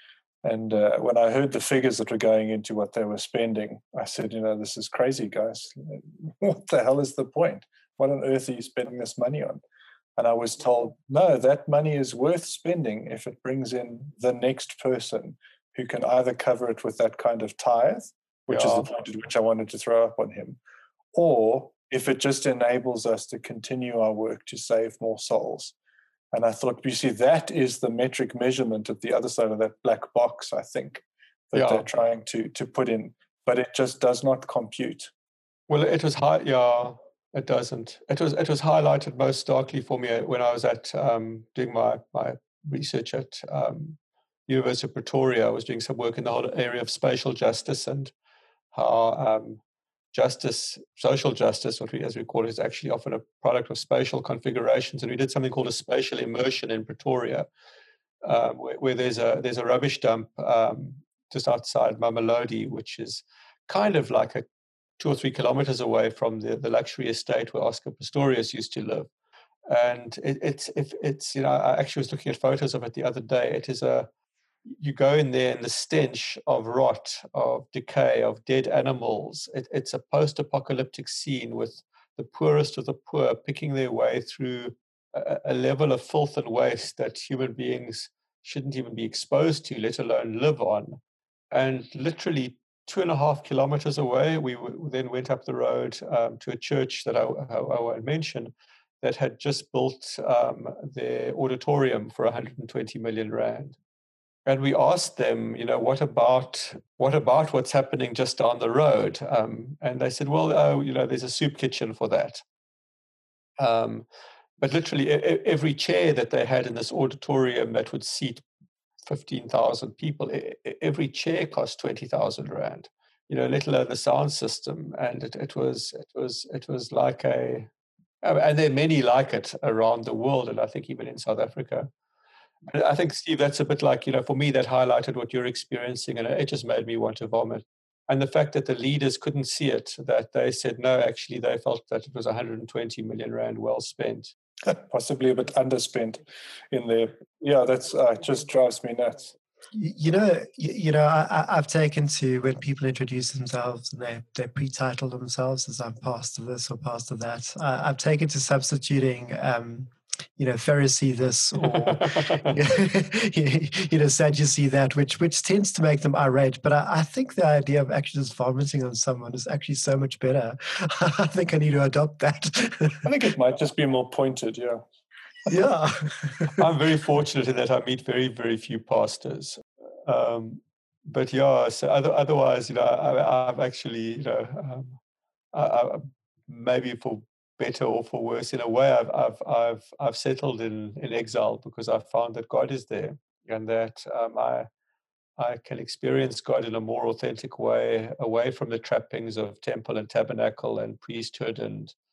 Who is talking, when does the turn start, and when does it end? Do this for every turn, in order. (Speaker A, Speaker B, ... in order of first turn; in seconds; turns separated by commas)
Speaker A: 0.4-9.6, Speaker A: 10.2-20.6, Speaker B: 18.5-18.9, Speaker A: 21.1-25.7, Speaker A: 26.3-35.1, Speaker B: 31.5-31.9, Speaker B: 35.7-48.1, Speaker B: 48.7-49.6, Speaker B: 50.1-57.5, Speaker B: 58.2-64.5, Speaker B: 65.0-69.1, Speaker B: 69.7-74.1, Speaker B: 74.7-91.0, Speaker B: 91.5-103.8, Speaker B: 104.5-112.4, Speaker B: 113.6-114.1, Speaker B: 114.6-118.4, Speaker B: 119.1-127.7, Speaker B: 128.2-131.9, Speaker B: 132.7-144.3, Speaker A: 144.7-149.3, Speaker C: 149.7-173.1, Speaker B: 161.6-162.6, Speaker A: 173.0-174.8, Speaker C: 175.5-176.7, Speaker B: 176.6-185.0, Speaker B: 185.5-194.7, Speaker B: 195.4-201.9